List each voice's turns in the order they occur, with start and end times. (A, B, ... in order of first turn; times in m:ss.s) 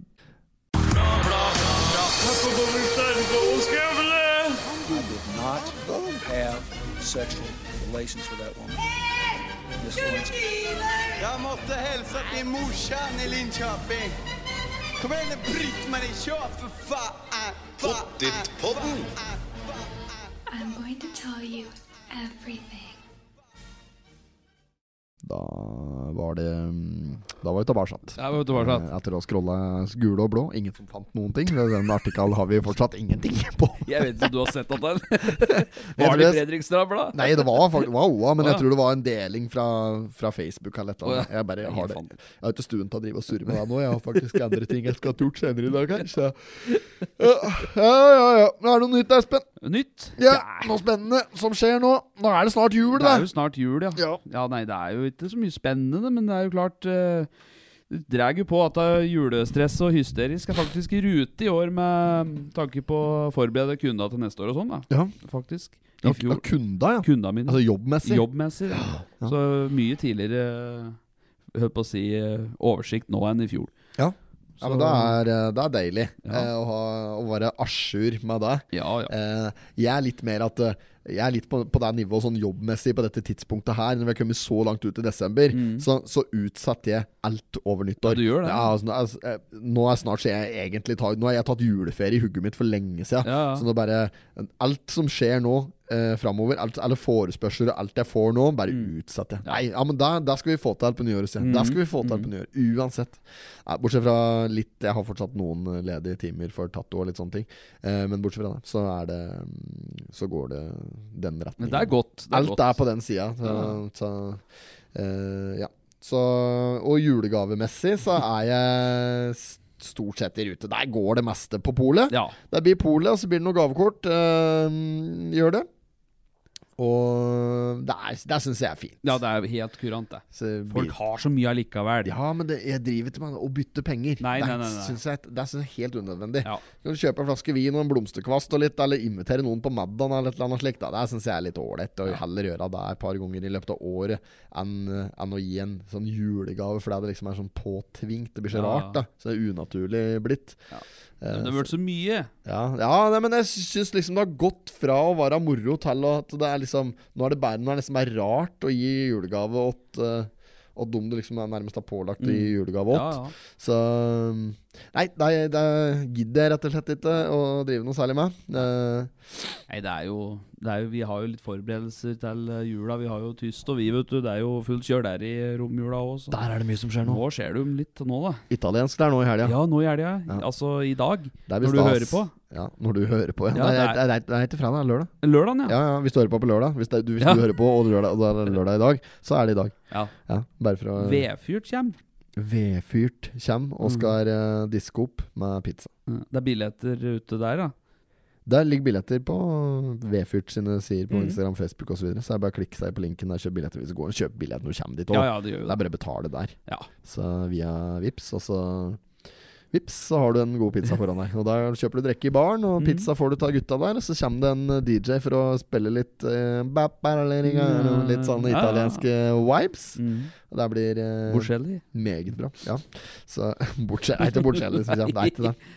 0:00.8-0:08.9 A
0:09.8-0:11.1 A
0:11.2-0:14.2 B
0:15.0-0:20.1 B
0:20.5-0:23.0 C
0:25.2-0:34.3 D
0:28.2-0:28.9 E
0:33.8-0:37.9 E
0:35.8-0:36.4 D
0:37.1-0:49.4 D
0:38.4-0:38.6 E
0:41.0-0:42.1 E
0:49.6-0:50.7 E
0:50.2-0:53.3 D
0:52.9-0:57.3 E
0:54.0-0:54.2 D
0:57.9-1:06.4 E
1:06.0-1:09.3 D
1:07.0-1:11.0 E
1:11.5-1:13.7 E
1:14.0-1:54.4 D
1:14.6-1:15.2 E
1:16.2-1:16.5 E
1:18.7-1:19.1 E
1:25.5-1:25.9 E
1:28.0-1:28.7 E
1:33.2-1:33.7 E
1:41.4-1:42.3 E
1:51.6-1:52.8 E
1:53.4-1:53.8 E
1:54.9-2:05.7 D
2:02.1-2:02.4 E
2:06.8-2:09.2 D
2:09.0-2:12.1 E
2:10.3-2:10.9 D
2:12.0-2:30.6 D
2:14.2-2:15.0 E
2:28.5-2:29.0 E
2:30.7-2:32.3 E
2:31.2-2:31.7 D
2:32.4-2:49.1 D
2:42.2-2:43.3 E
2:49.7-2:56.4 E
2:56.3-2:57.2 D
2:57.0-2:58.4 E
2:58.5-2:59.6 D
2:59.4-3:02.3 E
3:01.5-3:05.1 D
3:03.5-3:04.0 E
3:05.2-3:05.8 E
3:05.6-3:09.7 D
3:07.2-3:07.5 E
3:10.3-3:11.2 D
3:11.0-3:12.0 E
3:12.4-3:15.9 D
3:13.8-3:14.1 E
3:16.1-3:17.7 E
3:18.4-3:29.0 D
3:21.1-3:21.4 E
3:25.1-3:25.8 E
3:29.7-3:45.6 D
3:32.8-3:33.1 E
3:37.4-3:39.0 E
3:40.0-3:40.3 E
3:41.3-3:41.8 E
3:44.2-3:45.5 E